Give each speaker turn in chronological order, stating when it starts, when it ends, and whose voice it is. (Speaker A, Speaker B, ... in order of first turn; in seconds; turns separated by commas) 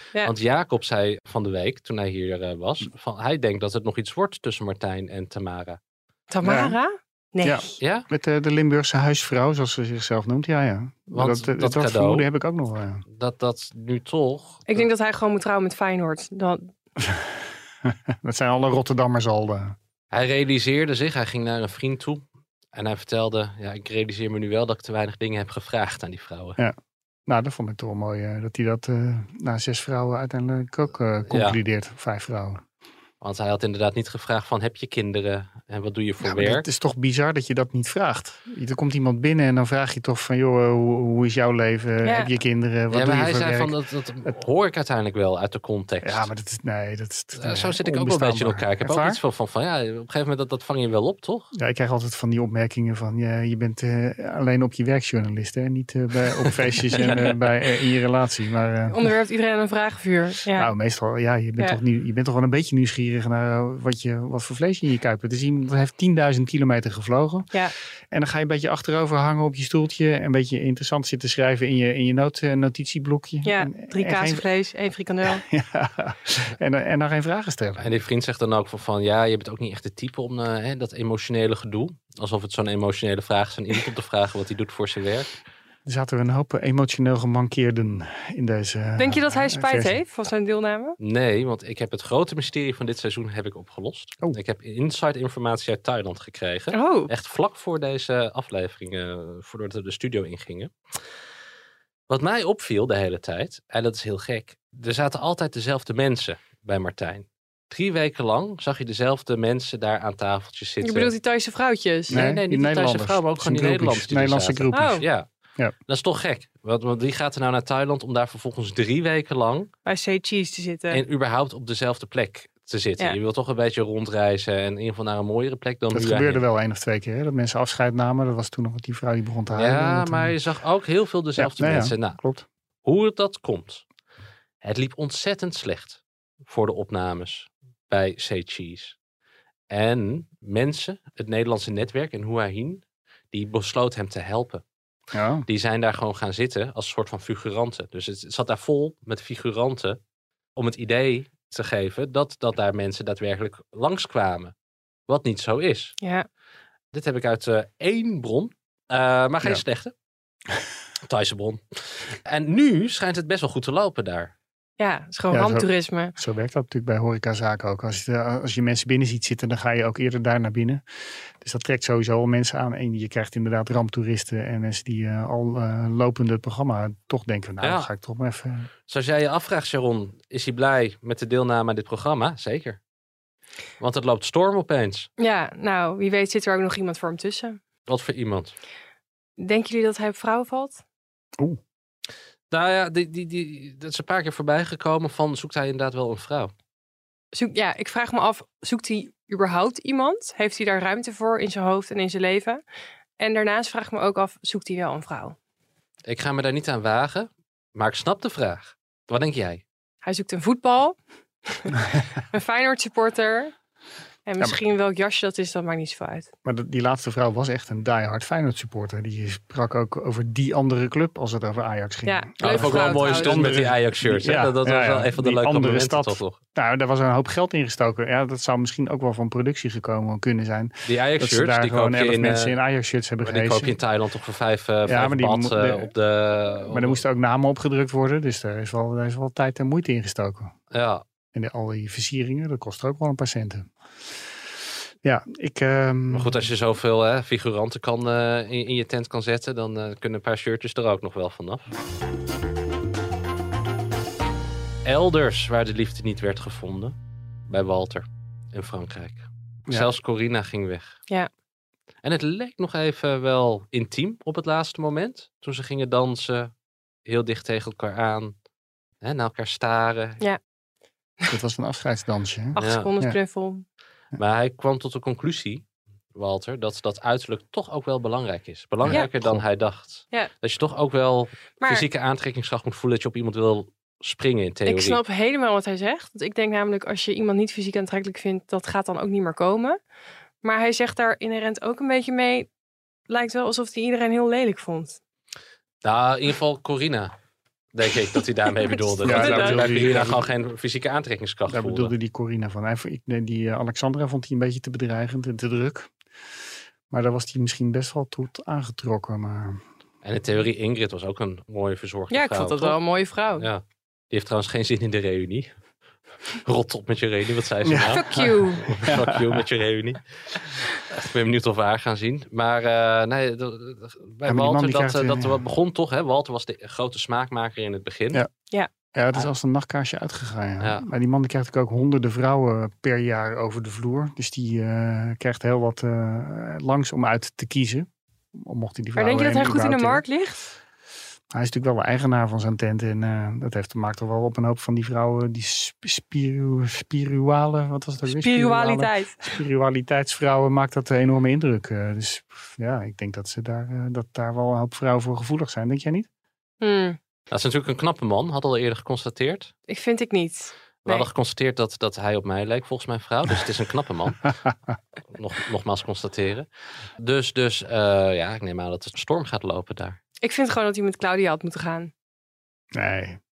Speaker A: 0.2-5.8, Speaker B: 6.3-7.7, Speaker C: 6.4-6.8, Speaker C: 7.4-13.0, Speaker A: 7.8-8.1, Speaker A: 11.1-12.2, Speaker A: 13.1-14.8, Speaker B: 14.7-16.7, Speaker C: 17.0-19.8, Speaker A: 20.1-26.6, Speaker C: 27.3-32.6, Speaker A: 31.3-31.6, Speaker A: 33.2-36.6, Speaker C: 36.2-43.7, Speaker B: 42.0-42.3, Speaker A: 42.9-46.3, Speaker C: 46.0-49.2, Speaker A: 47.4-51.5, Speaker C: 51.5-59.1, Speaker B: 57.0-57.2, Speaker A: 57.0-57.3, Speaker B: 58.9-60.7, Speaker C: 60.5-67.5, Speaker C: 68.1-74.4, Speaker B: 73.4-75.4, Speaker C: 75.2-77.9, Speaker A: 77.8-85.3, Speaker C: 85.8-89.9, Speaker B: 89.0-91.0, Speaker A: 91.0-100.7, Speaker B: 96.7-97.1, Speaker A: 102.1-111.1, Speaker B: 110.8-112.2, Speaker C: 112.1-115.0, Speaker A: 112.1-115.3, Speaker B: 114.7-115.0, Speaker A: 115.9-119.7, Speaker B: 119.8-121.0, Speaker A: 120.9-126.4, Speaker C: 125.9-130.3, Speaker A: 129.5-132.2, Speaker C: 131.4-132.4, Speaker A: 132.8-133.8, Speaker A: 134.6-138.9, Speaker A: 139.7-144.6, Speaker C: 145.1-145.4, Speaker A: 145.5-150.0, Speaker A: 150.6-154.5, Speaker A: 155.1-155.9, Speaker B: 156.0-156.3, Speaker A: 156.9-159.9, Speaker A: 161.1-164.3, Speaker B: 164.8-166.1, Speaker C: 165.3-170.8, Speaker C: 171.4-178.7, Speaker A: 177.6-177.9, Speaker A: 178.9-182.8, Speaker A: 183.8-185.1, Speaker B: 185.2-187.6, Speaker A: 187.9-188.5, Speaker B: 189.4-190.8, Speaker A: 192.5-196.5, Speaker B: 197.3-202.6, Speaker B: 203.2-205.3, Speaker A: 206.0-209.6, Speaker B: 210.0-210.9, Speaker B: 211.5-211.8, Speaker B: 212.3-213.5, Speaker B: 214.2-216.3, Speaker C: 216.4-233.8, Speaker B: 222.1-223.5, Speaker A: 222.4-226.3, Speaker A: 230.8-232.5, Speaker A: 233.2-237.0, Speaker C: 234.8-235.9, Speaker C: 236.7-240.5, Speaker A: 240.7-241.0, Speaker C: 241.3-243.7, Speaker C: 245.0-246.4, Speaker A: 246.1-251.7, Speaker A: 254.8-256.9, Speaker A: 257.5-261.0, Speaker A: 262.0-266.5, Speaker A: 267.1-268.3, Speaker A: 269.0-270.2, Speaker C: 271.3-273.1, Speaker B: 272.5-273.6, Speaker A: 272.6-272.9, Speaker A: 274.1-275.6, Speaker A: 276.1-285.0, Speaker C: 278.8-279.4, Speaker B: 284.6-289.8, Speaker B: 290.4-292.5, Speaker B: 293.1-295.0, Speaker A: 295.8-297.1, Speaker A: 297.7-301.9, Speaker B: 299.0-299.7, Speaker C: 299.0-300.2, Speaker C: 301.5-305.9, Speaker C: 306.9-309.6, Speaker A: 310.0-312.8, Speaker B: 312.1-313.5, Speaker A: 313.4-315.5, Speaker A: 316.3-328.2, Speaker C: 317.6-319.4, Speaker B: 317.9-318.6, Speaker C: 324.2-325.4, Speaker C: 328.9-340.0, Speaker B: 338.9-340.4, Speaker C: 341.3-356.1, Speaker B: 348.1-349.3, Speaker B: 356.6-357.0, Speaker A: 357.3-359.5, Speaker B: 359.7-361.1, Speaker A: 360.8-364.3, Speaker A: 365.1-366.5, Speaker A: 367.0-370.0, Speaker B: 370.2-371.9, Speaker C: 372.7-373.2